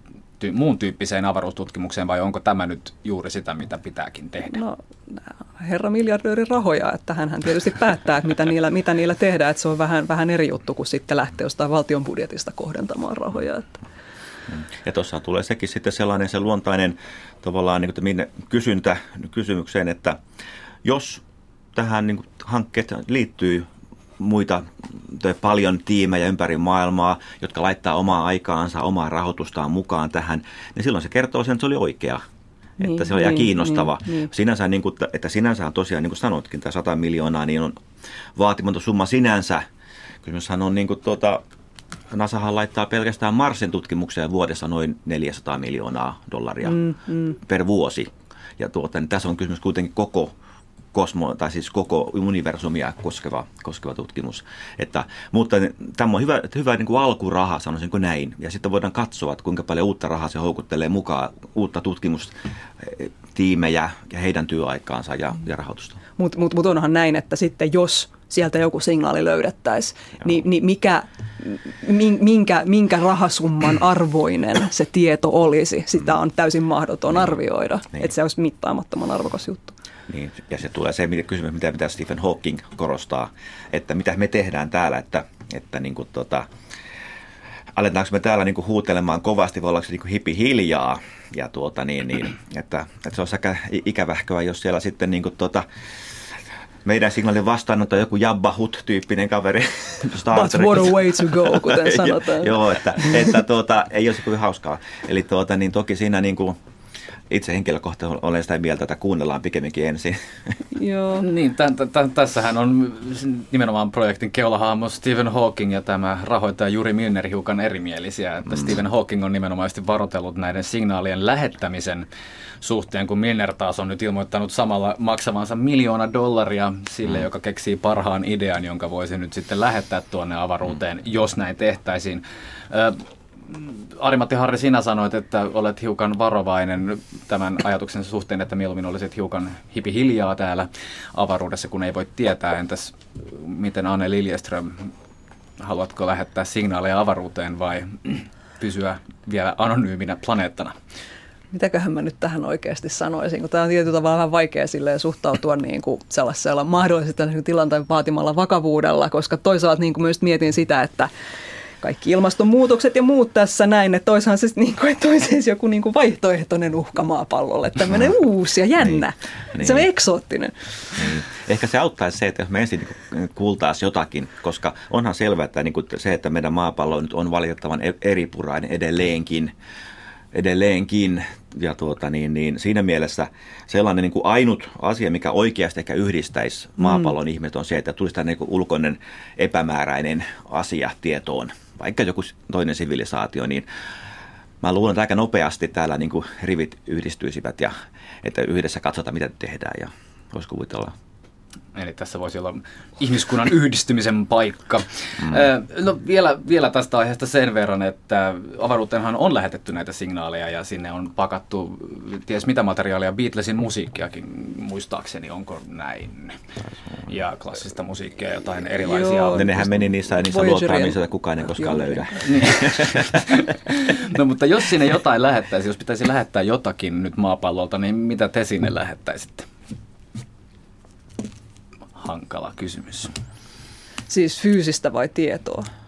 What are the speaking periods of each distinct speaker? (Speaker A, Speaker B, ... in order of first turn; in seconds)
Speaker A: 0.4-4.6, 111.1-122.1, 122.6-144.9, 145.6-150.7, 201.7-216.4, 217.1-219.5, 222.2-229.5, 232.0-233.1
Speaker B: 4.5-13.8, 32.8-34.3, 46.6-47.4, 66.2-79.8, 100.3-103.1, 110.7-111.2, 151.5-161.1, 161.8-170.7, 218.8-222.2, 234.1-235.7
Speaker C: 14.5-20.2, 20.8-21.2, 21.7-23.7, 24.2-32.2, 32.8-37.8, 38.4-39.6, 40.2-41.4, 42.1-46.8, 47.4-50.3, 50.9-66.0, 80.1-86.5, 87.7-95.6, 96.8-106.6, 107.3-110.6, 169.6-169.8, 170.9-179.5, 180.3-193.6, 194.6-200.9, 219.3-223.2